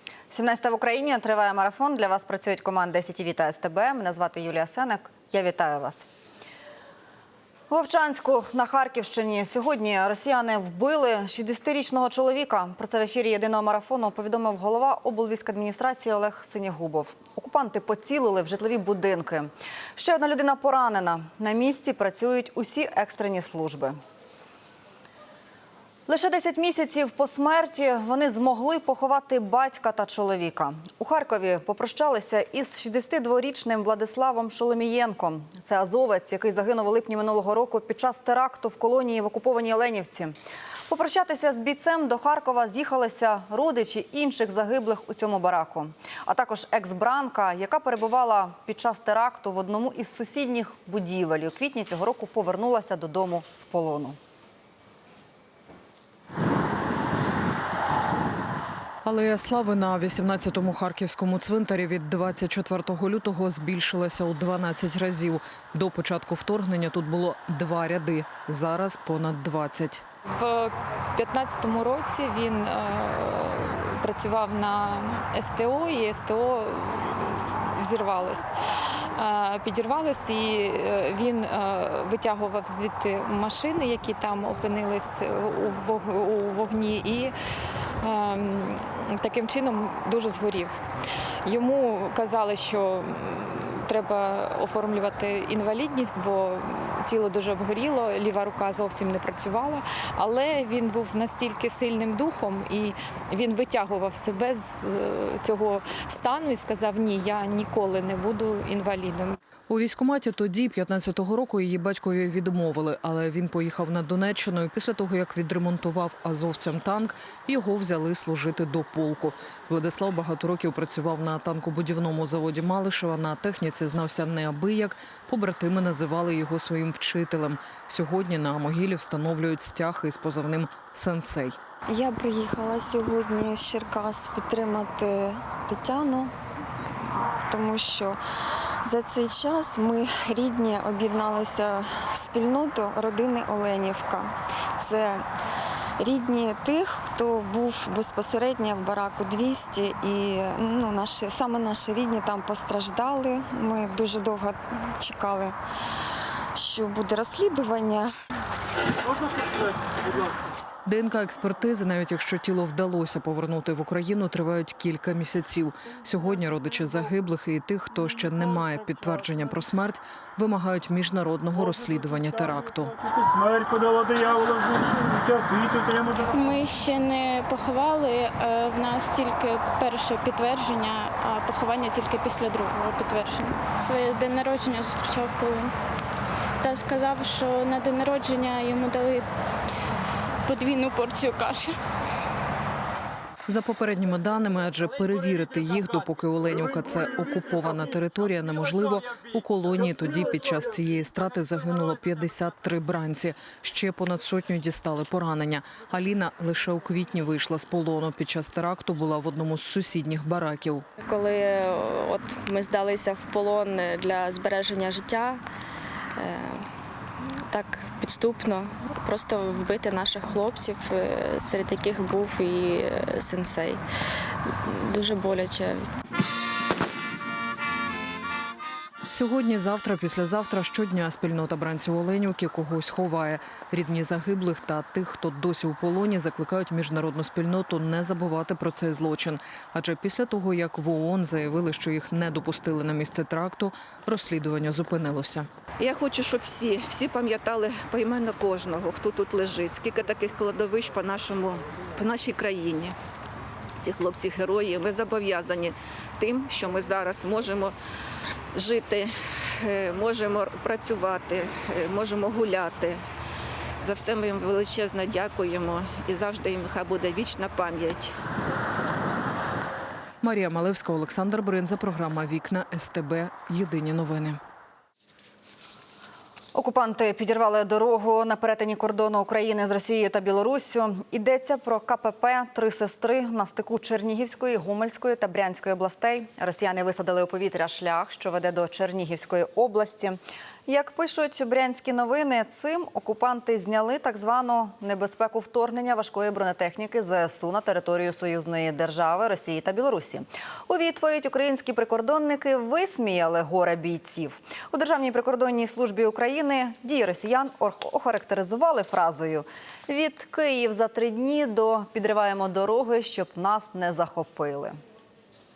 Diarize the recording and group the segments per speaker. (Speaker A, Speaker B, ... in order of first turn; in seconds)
Speaker A: 0.3-6.1, 7.7-24.0, 26.1-40.3, 40.9-54.2, 276.5-314.8
Speaker B: 59.0-70.0, 109.7-131.6, 160.8-172.9, 193.5-210.8, 229.1-245.5, 270.2-274.4
Speaker C: 70.4-78.5, 79.2-87.3, 88.0-90.7, 91.4-109.4
Speaker D: 131.9-136.3, 137.4-138.2, 138.8-145.2, 146.0-155.6, 156.5-158.1
Speaker E: 173.3-176.0
Speaker F: 176.3-185.7, 186.6-189.3, 190.4-191.8
Speaker G: 211.1-215.4, 216.2-216.6, 217.5-223.8, 224.7-225.8
Speaker H: 245.8-252.9, 253.8-257.7, 258.5-263.0, 263.8-268.1